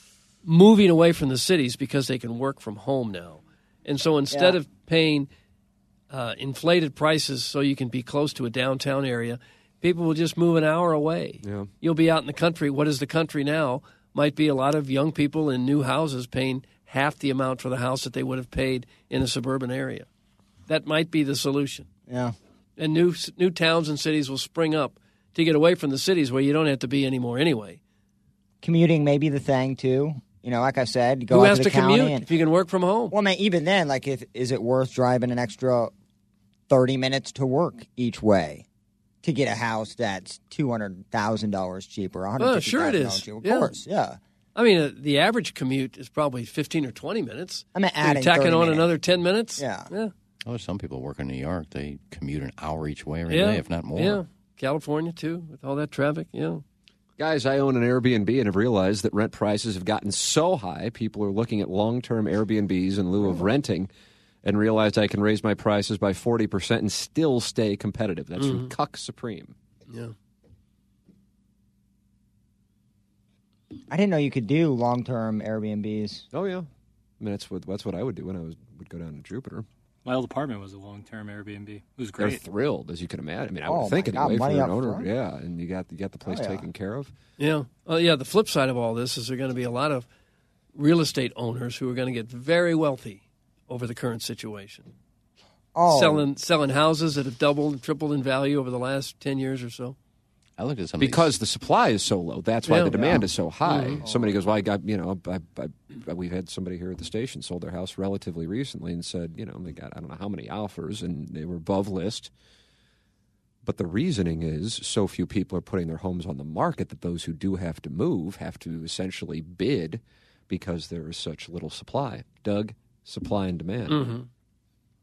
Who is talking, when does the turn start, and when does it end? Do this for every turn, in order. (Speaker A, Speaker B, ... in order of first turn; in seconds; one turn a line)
Speaker A: 0.5-5.3
Speaker B: 4.3-4.6
Speaker A: 6.1-20.1
Speaker C: 11.4-11.7
Speaker A: 20.7-21.9
Speaker B: 22.1-22.4
Speaker A: 22.8-27.8
Speaker B: 28.6-32.3
Speaker A: 31.3-33.1
Speaker B: 33.1-35.9
Speaker B: 36.7-38.6
Speaker B: 39.2-44.2
Speaker A: 42.4-43.7
Speaker A: 44.5-50.1
Speaker B: 47.7-48.9
Speaker B: 49.6-49.9
Speaker D: 50.4-54.2
Speaker A: 53.3-56.6
Speaker C: 57.2-63.9
Speaker C: 64.4-69.5
Speaker A: 68.4-68.7
Speaker A: 69.9-70.1
Speaker B: 73.9-76.2
Speaker C: 76.3-76.7
Speaker C: 77.2-79.7
Speaker E: 80.0-82.4
Speaker C: 82.2-87.1
Speaker B: 83.7-85.1
Speaker B: 86.2-86.7
Speaker A: 87.4-90.1
Speaker A: 90.7-94.9
Speaker B: 95.7-96.2
Speaker A: 95.9-100.0
Speaker D: 100.6-101.3
Speaker C: 101.0-112.3
Speaker A: 102.7-103.1
Speaker B: 102.9-103.2
Speaker A: 103.6-104.0
Speaker B: 104.0-104.4
Speaker C: 113.6-124.1
Speaker A: 123.9-124.3